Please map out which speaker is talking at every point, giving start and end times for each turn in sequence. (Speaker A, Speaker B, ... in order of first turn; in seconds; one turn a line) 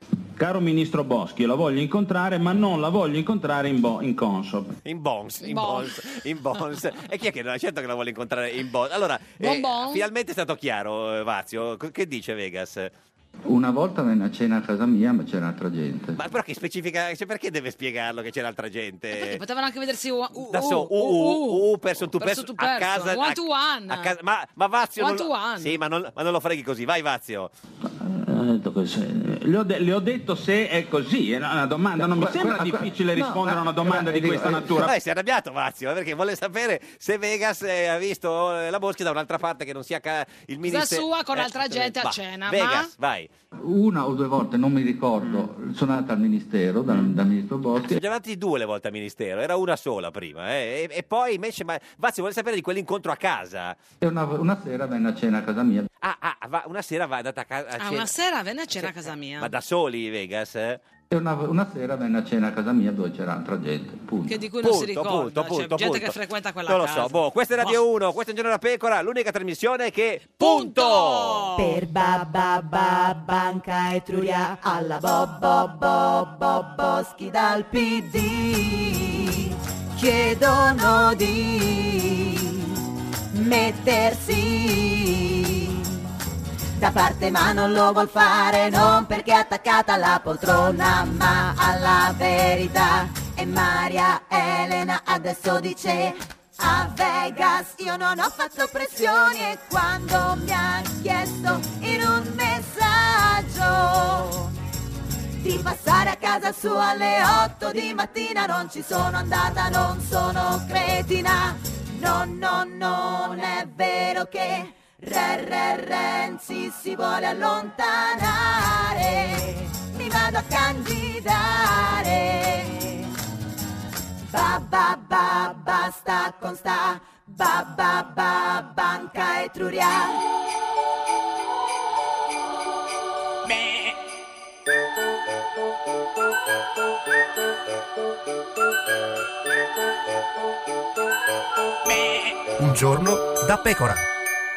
Speaker A: 0.4-4.8
Speaker B: 4.8-12.9
Speaker C: 5.4-5.9
Speaker C: 9.4-10.1
Speaker D: 13.5-16.2
Speaker B: 16.2-19.4
Speaker C: 19.1-24.1
Speaker B: 20.4-27.5
Speaker C: 25.0-25.8
Speaker A: 27.9-34.9
Speaker D: 32.0-34.9
Speaker B: 34.8-43.3
Speaker C: 40.6-42.9
Speaker D: 43.6-48.0
Speaker B: 47.9-53.8
Speaker D: 54.0-55.9
Speaker B: 56.0-58.1
Speaker C: 57.8-59.5
Speaker B: 58.8-60.8
Speaker D: 61.1-64.4
Speaker C: 64.3-67.8
Speaker B: 64.6-71.5
Speaker C: 70.4-71.7
Speaker E: 71.6-82.7
Speaker E: 83.3-85.8
Speaker E: 86.8-104.5
Speaker E: 105.4-123.1
Speaker E: 124.3-130.2